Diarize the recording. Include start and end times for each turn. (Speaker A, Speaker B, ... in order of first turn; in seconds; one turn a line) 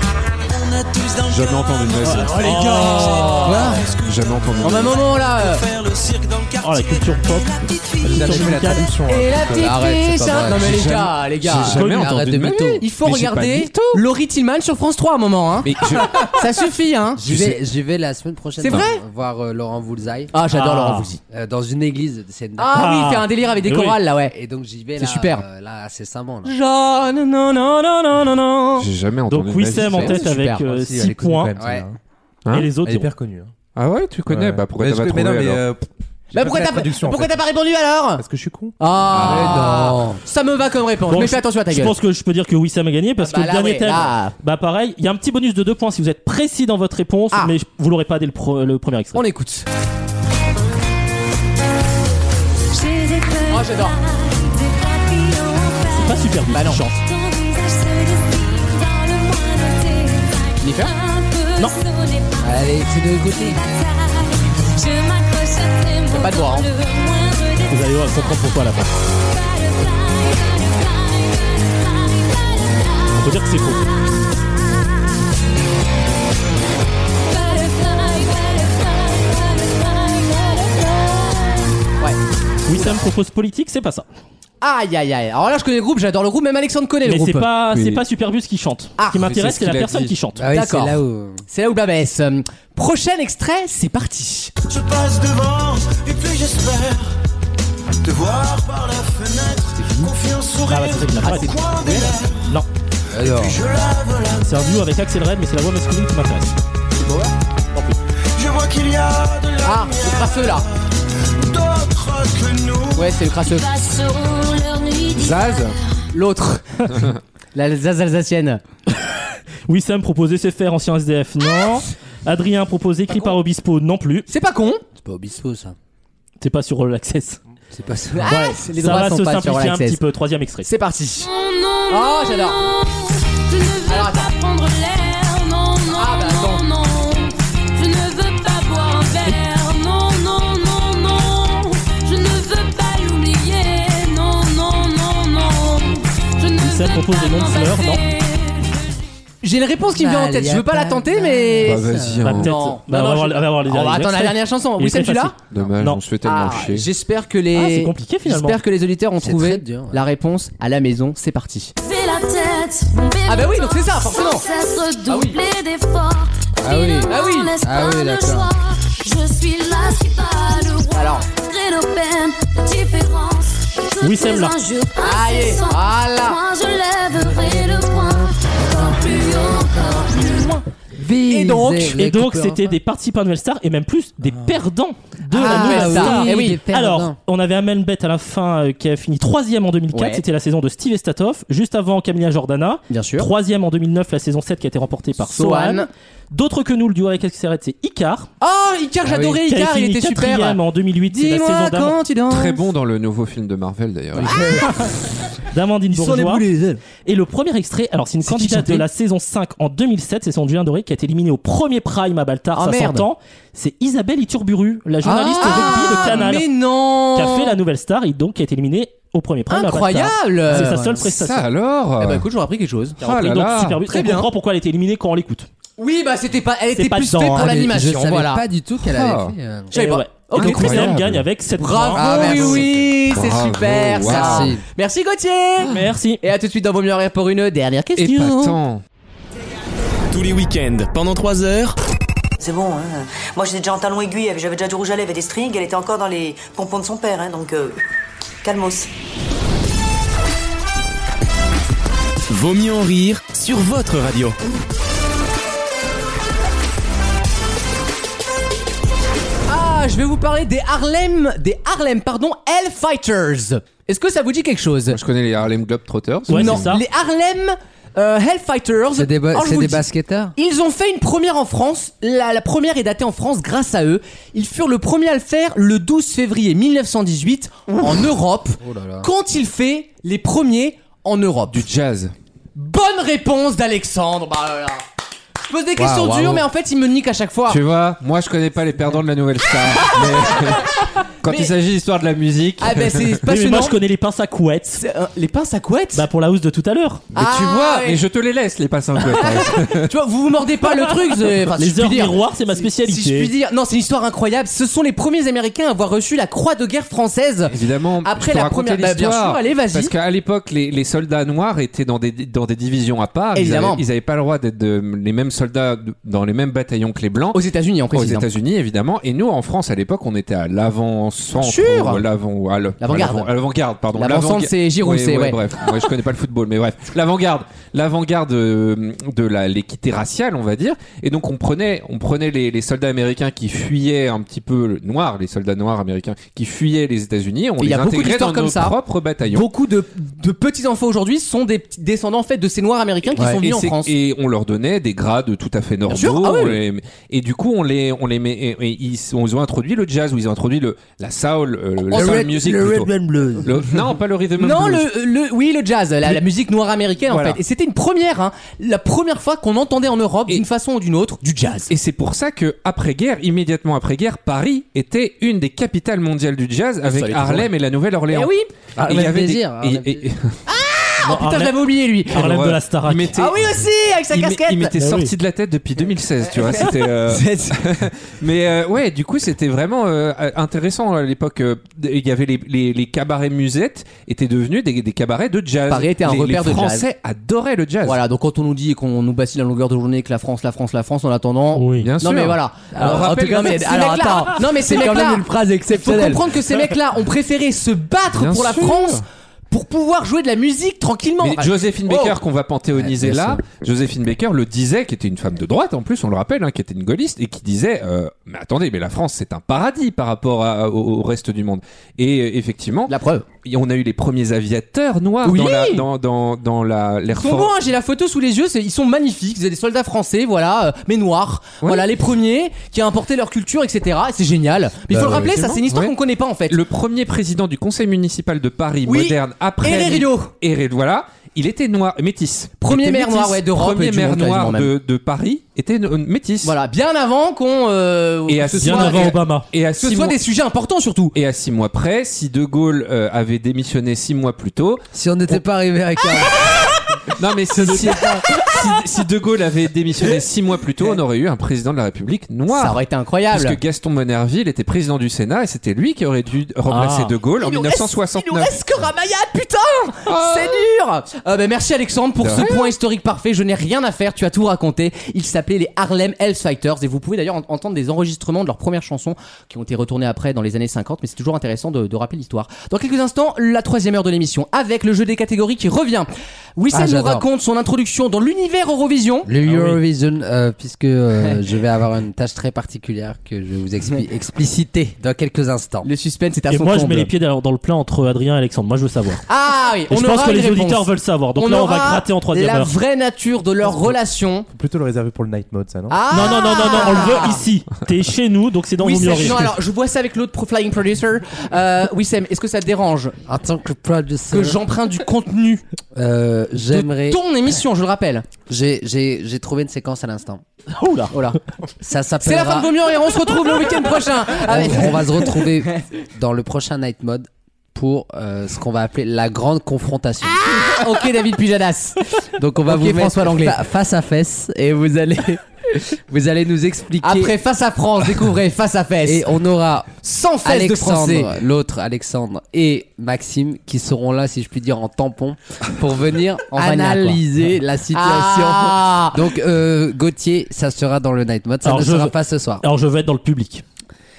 Speaker A: 0.5-8.6
Speaker B: 1.3-2.5
Speaker C: 2.0-3.5
Speaker D: 2.1-3.8
Speaker E: 3.4-3.8
Speaker B: 3.9-5.0
Speaker D: 4.6-5.7
Speaker C: 6.6-8.9
Speaker F: 8.0-9.8
Speaker D: 9.0-11.8
Speaker E: 9.5-10.8
Speaker B: 10.4-14.0
Speaker E: 11.5-12.8
Speaker D: 12.8-17.6
Speaker B: 15.6-16.3
Speaker E: 17.2-20.3
Speaker D: 18.6-19.0
Speaker D: 20.3-21.2
Speaker C: 20.5-21.1
Speaker E: 21.3-23.0
Speaker D: 22.6-24.3
Speaker C: 22.7-24.0
Speaker E: 24.3-26.5
Speaker D: 25.0-25.4
Speaker D: 26.4-28.9
Speaker B: 28.8-30.1
Speaker C: 29.3-31.5
Speaker D: 29.8-30.6
Speaker F: 29.9-32.0
Speaker E: 31.6-31.8
Speaker C: 32.5-33.1
Speaker F: 32.8-33.5
Speaker B: 33.7-35.6
Speaker F: 34.3-37.4
Speaker D: 36.3-38.2
Speaker F: 38.2-38.8
Speaker D: 38.8-41.9
Speaker B: 39.1-39.7
Speaker E: 39.2-40.2
Speaker C: 41.1-49.2
Speaker D: 43.2-44.3
Speaker D: 49.1-49.7
Speaker G: 52.7-68.0
Speaker D: 53.5-53.9
Speaker C: 55.9-57.0
Speaker D: 56.5-56.8
Speaker D: 60.6-60.9
Speaker E: 62.4-63.6
Speaker D: 66.1-66.7
Speaker C: 67.7-68.9
Speaker G: 69.1-74.8
Speaker C: 73.2-73.8
Speaker G: 77.1-81.8
Speaker C: 82.7-84.0
Speaker D: 82.7-83.0
Speaker D: 84.6-87.5
Speaker C: 87.0-90.5
Speaker B: 87.7-88.0
Speaker D: 89.0-89.2
Speaker B: 89.1-90.2
Speaker E: 90.3-91.4
Speaker D: 90.5-91.0
Speaker D: 91.5-94.5
Speaker A: 94.6-97.1
Speaker A: 98.0-102.5
Speaker C: 100.7-101.5
Speaker D: 101.2-102.1
Speaker E: 103.1-103.6
Speaker A: 103.1-104.6
Speaker C: 104.4-106.6
Speaker D: 107.0-107.9
Speaker A: 108.3-113.2
Speaker D: 109.6-110.6
Speaker D: 113.0-113.7
Speaker G: 113.5-116.0
Speaker B: 115.1-115.8
Speaker D: 116.1-118.6
Speaker B: 116.9-117.2
Speaker C: 119.7-124.3
Speaker D: 124.3-124.8
Speaker E: 125.0-125.7
Speaker C: 126.4-127.4
Speaker E: 127.7-128.3
Speaker D: 128.1-130.0
Speaker C: 128.3-130.7
Speaker D: 130.6-131.3
Speaker G: 131.2-148.9
Speaker D: 131.9-132.6
Speaker D: 133.9-134.3
Speaker D: 135.9-136.6
Speaker C: 146.6-148.0
Speaker D: 149.4-151.8
Speaker E: 149.9-152.4
Speaker B: 151.6-152.7
Speaker C: 152.2-156.0
Speaker D: 152.3-155.3
Speaker B: 155.5-156.9
Speaker D: 156.2-161.7
Speaker C: 157.5-158.6
Speaker E: 159.2-160.0
Speaker G: 161.8-180.6
Speaker D: 163.3-164.5
Speaker D: 165.1-165.4
Speaker E: 166.6-168.5
Speaker D: 167.0-167.5
Speaker D: 170.9-171.2
Speaker C: 174.0-174.6
Speaker D: 175.0-176.4
Speaker E: 177.1-180.4
Speaker C: 180.2-180.6
Speaker E: 180.9-182.8
Speaker D: 181.3-181.9
Speaker C: 181.8-198.3
Speaker D: 185.3-186.6
Speaker E: 185.3-187.2
Speaker D: 189.9-190.2
Speaker D: 192.9-193.3
Speaker D: 195.2-195.9
Speaker D: 198.4-202.6
Speaker E: 199.0-199.4
Speaker C: 199.4-202.0
Speaker B: 202.3-204.3
Speaker E: 204.1-204.7
Speaker D: 204.2-204.6
Speaker C: 204.6-204.9
Speaker C: 205.5-206.4
Speaker D: 205.9-206.8
Speaker E: 206.1-206.8
Speaker C: 207.1-216.5
Speaker D: 208.2-208.8
Speaker D: 212.6-213.1
Speaker D: 215.0-217.6
Speaker E: 215.2-216.0
Speaker C: 217.1-221.4
Speaker D: 219.5-220.8
Speaker E: 220.5-221.1
Speaker B: 221.0-222.2
Speaker D: 222.0-223.0
Speaker C: 223.0-225.5
Speaker B: 223.0-223.8
Speaker D: 223.8-224.3
Speaker D: 225.8-228.4
Speaker C: 226.8-227.5
Speaker E: 227.3-229.8
Speaker B: 228.8-229.3
Speaker D: 229.7-230.9
Speaker C: 229.7-232.6
Speaker B: 230.3-231.2
Speaker D: 231.6-238.6
Speaker E: 231.9-233.1
Speaker B: 233.1-234.5
Speaker E: 234.0-234.6
Speaker C: 235.6-236.2
Speaker B: 238.0-238.8
Speaker H: 240.1-241.7
Speaker I: 242.4-247.8
Speaker I: 248.4-248.9
Speaker H: 252.3-254.4
Speaker D: 259.5-265.0
Speaker B: 264.9-266.7
Speaker C: 266.3-266.8
Speaker D: 266.3-269.8
Speaker E: 268.9-270.3
Speaker D: 270.4-281.6
Speaker E: 278.6-279.1
Speaker B: 281.5-282.1
Speaker D: 282.6-284.8
Speaker D: 285.4-287.6
Speaker E: 285.8-286.4
Speaker B: 287.5-293.2
Speaker D: 291.2-291.5
Speaker D: 292.6-293.8
Speaker C: 293.3-294.8
Speaker D: 294.8-296.1
Speaker C: 295.9-297.0
Speaker B: 297.1-299.9
Speaker D: 297.1-298.0
Speaker D: 299.0-309.9
Speaker C: 300.8-303.3
Speaker B: 307.5-339.5
Speaker D: 313.3-313.8
Speaker D: 317.3-318.3
Speaker D: 321.4-322.0
Speaker D: 322.8-323.3
Speaker D: 323.9-325.4
Speaker D: 337.6-338.7
Speaker D: 339.3-343.9
Speaker B: 343.1-352.9
Speaker D: 345.9-346.6
Speaker E: 351.9-353.6
Speaker B: 353.4-354.9
Speaker D: 354.4-361.7
Speaker B: 357.1-357.4
Speaker B: 361.7-370.4
Speaker D: 366.8-367.5
Speaker D: 368.1-368.5
Speaker E: 368.8-370.1
Speaker D: 370.5-372.3
Speaker C: 371.0-371.5
Speaker C: 372.1-373.1
Speaker B: 372.1-373.5
Speaker D: 373.1-374.8
Speaker B: 374.1-388.0
Speaker C: 374.8-375.1
Speaker D: 376.3-377.6
Speaker D: 385.7-386.8
Speaker D: 387.9-402.2
Speaker C: 391.5-391.9
Speaker B: 391.8-393.9
Speaker E: 392.7-396.3
Speaker B: 398.1-399.0
Speaker B: 401.2-417.5
Speaker E: 402.7-403.4
Speaker D: 412.9-413.2
Speaker D: 415.2-415.8
Speaker D: 417.1-426.6
Speaker B: 421.6-421.9
Speaker B: 424.9-425.9
Speaker B: 426.5-436.5
Speaker D: 428.9-430.3
Speaker D: 432.6-434.7
Speaker D: 436.4-439.1
Speaker B: 438.3-440.2
Speaker C: 438.6-439.5
Speaker D: 439.8-441.1
Speaker B: 441.1-445.4
Speaker E: 444.9-446.4
Speaker B: 447.1-452.8
Speaker D: 447.6-448.5
Speaker D: 452.5-453.6
Speaker B: 453.3-458.5
Speaker C: 456.7-457.1
Speaker D: 457.4-479.3
Speaker B: 460.1-460.6
Speaker B: 462.2-462.7
Speaker E: 476.7-477.2
Speaker E: 479.2-485.9
Speaker C: 479.4-479.8
Speaker D: 485.8-487.1
Speaker C: 486.5-489.2
Speaker D: 489.3-494.5
Speaker C: 489.9-492.7
Speaker F: 494.5-496.3
Speaker D: 495.9-497.4
Speaker C: 496.1-499.4
Speaker D: 498.8-503.1
Speaker E: 503.3-504.6
Speaker D: 504.3-505.6
Speaker E: 505.9-507.2
Speaker D: 506.6-508.3
Speaker E: 508.5-510.4
Speaker C: 510.7-511.1
Speaker D: 511.1-511.4
Speaker E: 511.8-512.7
Speaker D: 512.2-515.5
Speaker E: 514.4-520.4
Speaker D: 520.3-522.0
Speaker E: 522.4-527.3
Speaker D: 522.6-523.6
Speaker D: 527.0-529.3
Speaker E: 529.0-529.9
Speaker D: 530.0-531.3
Speaker E: 530.4-542.6
Speaker D: 536.5-537.2
Speaker D: 537.9-539.3
Speaker C: 541.6-543.6